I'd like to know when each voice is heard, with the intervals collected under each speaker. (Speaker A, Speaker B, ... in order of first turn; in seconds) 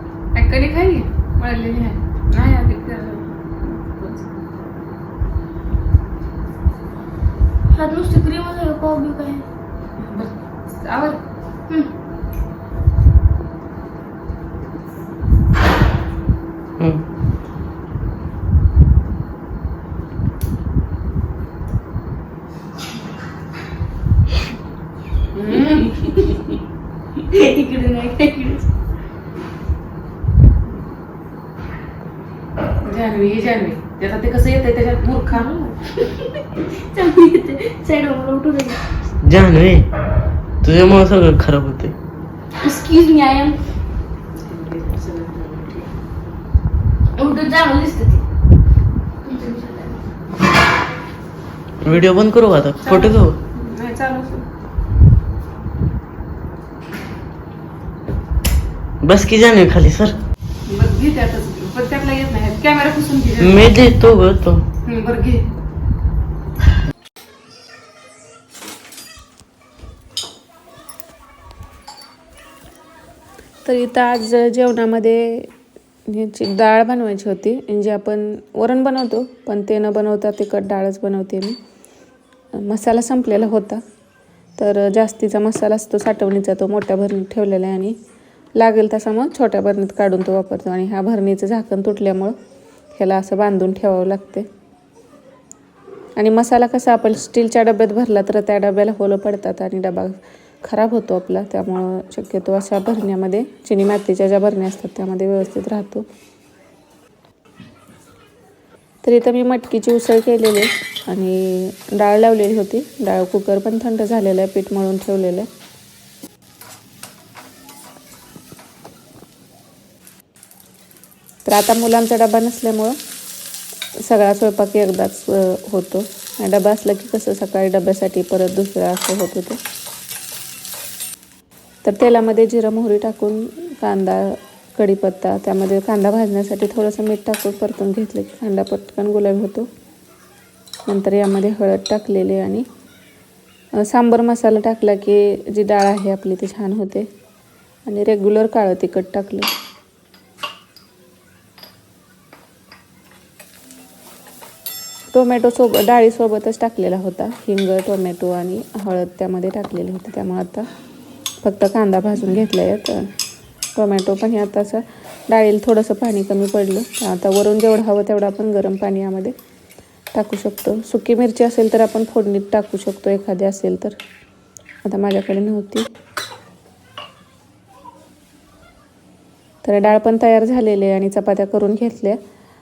Speaker A: 0.3-4.3, 10.0-10.3, 10.8-11.2, 25.3-26.2, 32.8-35.7, 44.5-45.7, 52.8-54.4, 60.7-63.7, 64.8-65.4, 73.6-75.5, 76.1-81.6, 82.5-83.8, 84.6-88.0, 88.5-92.3, 92.9-94.5, 96.2-106.0, 109.0-115.5, 121.4-123.0, 124.0-129.6, 131.8-139.7, 140.9-142.7, 143.8-147.1, 147.8-149.5, 155.1-160.7, 161.4-163.1, 163.7-169.3, 170.1-174.0, 174.8-175.8, 179.6-182.2
Speaker B: 7.8-9.4, 27.6-28.5, 37.0-38.8, 47.3-48.1
Speaker C: 39.2-39.8, 40.6-41.9, 51.8-53.4, 59.0-60.1, 63.4-64.6